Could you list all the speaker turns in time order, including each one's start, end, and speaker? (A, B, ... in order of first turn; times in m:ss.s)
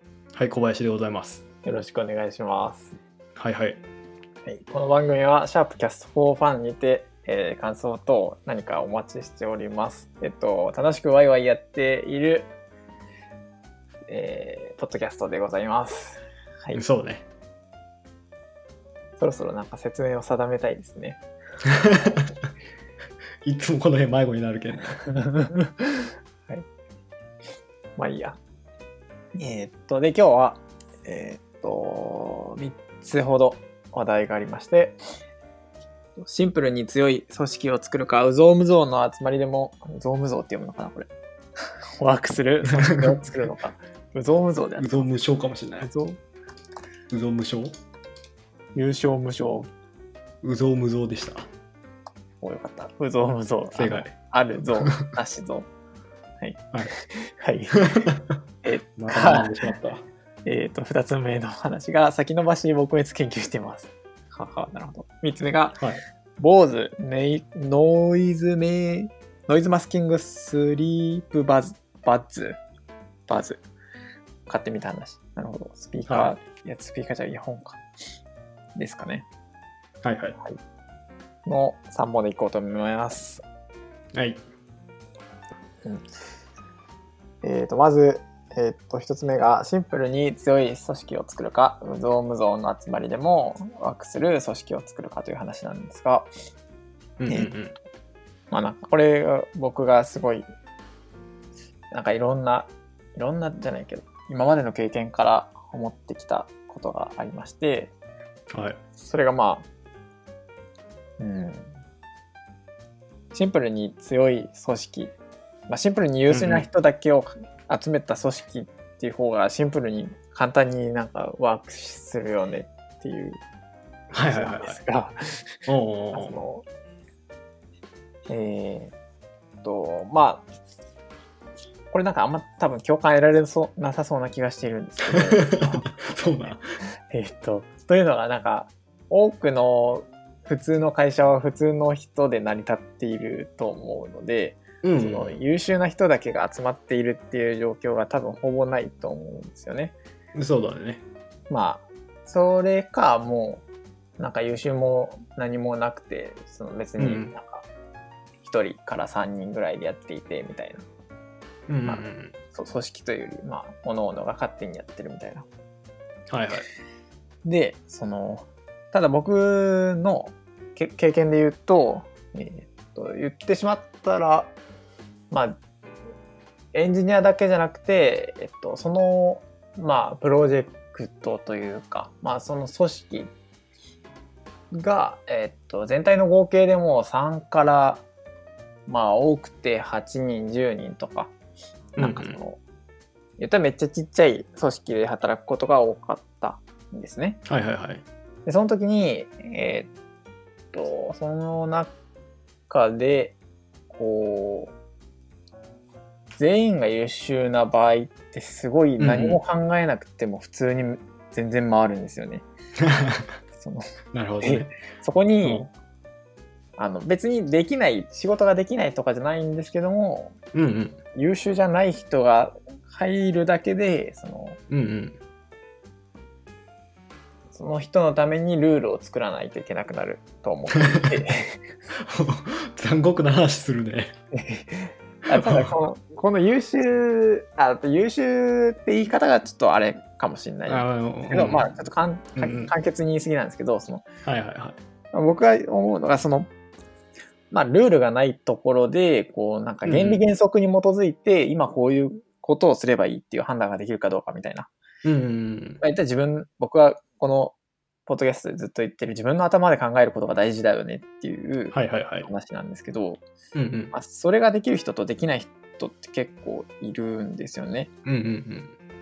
0:00.3-0:01.4 A
0:01.6-0:03.0 B
0:03.4-0:03.8 A
0:04.5-0:12.5 B
0:14.1-0:16.8 B
0:16.8-0:17.3 A
0:19.2-0:21.2 B
0:21.6-0:22.3 A
0:21.8-0:22.3 B
0:23.4-0:25.0 A
0:25.1-0:26.6 B
0:28.0-0:28.4 B
0:29.4-0:35.0 B
0:36.2-0:41.1 B
0:42.0-0:45.1 B
0:42.9-0:43.2 A
0:44.8-0:45.9 A
0:45.8-0:46.2 B
0:47.1-0:47.7 A
0:48.8-0:49.7 B
0:50.4-0:51.5 A
0:52.4-0:55.7 B
0:53.8-0:54.1 A
0:56.4-0:57.8 B
0:57.8-0:58.4 A
0:58.6-0:59.7 B
0:59.0-1:00.0 A
1:00.5-1:05.8 B
1:06.4-1:12.6 B
1:13.3-1:13.6 B
1:14.5-1:17.8 B
1:16.1-1:16.3 A
1:18.8-1:19.3 B
1:20.0-1:20.4 A
1:21.5-1:23.4 B
1:24.1-1:24.4 A
1:27.4-1:36.3 B
1:37.2-1:37.8 A
1:38.5-1:40.4 B
1:41.9-1:47.9 B
1:48.5-1:48.8 A
1:49.0-1:49.7 B
1:51.2-1:51.7 B
1:53.3-1:55.1 B
1:55.7-2:03.4 B
1:56.3-1:56.7 A
2:04.1-2:04.8 A
2:04.2-2:06.6 B
2:05.7-2:06.4 A
2:08.3-2:08.9 B
2:09.6-2:10.5 B
2:11.9-2:16.1 B
2:15.1-2:16.6 A
2:17.1-2:30.0 B
2:24.8-2:25.4 A
2:30.4-2:31.0 A
2:31.5-2:33.6 B
2:34.2-2:37.7 B
2:37.0-2:37.4 A
2:38.4-2:40.8 B
2:41.7-2:42.3 A
2:41.9-2:45.5 B
2:46.3-2:46.7 A
2:47.4-2:54.5 B
2:55.3-2:55.6 B
2:56.7-3:03.3 B
3:04.7-3:08.0 B
3:08.9-3:11.3 B
3:12.0-3:12.6 B
3:12.0-3:12.4 A
3:13.4-3:17.4 B
3:17.5-3:18.0 A
3:18.5-3:19.9 B
3:20.7-3:21.9 B
3:22.7-3:23.4 B
3:23.9-3:24.7 B
3:26.4-3:32.5 B
3:29.0-3:29.4 A
3:32.8-3:33.3 A
3:33.6-3:33.8 B
3:34.1-3:34.7 A
3:34.4-3:35.7 B
3:35.4-3:35.7 A
3:36.8-3:40.4 B
3:40.5-3:41.0 A
3:41.1-3:44.6 B
3:44.7-3:45.2 A
3:47.5-3:51.6 B
3:50.9-3:51.2 A
3:52.0-3:54.1 A
3:54.3-4:04.1 B
3:55.3-3:55.7 A
4:00.7-4:01.7 A
4:02.4-4:02.7 A
4:04.2-4:04.8 A
4:05.1-4:06.5 B
4:07.5-4:14.7 B
4:09.8-4:10.2 A
4:15.0-4:15.8 A
4:15.8-4:17.6 B
4:18.1-4:23.2 B
4:21.7-4:22.3 A
4:23.5-4:23.9 A
4:23.9-4:27.9 B
4:28.1-4:28.7 A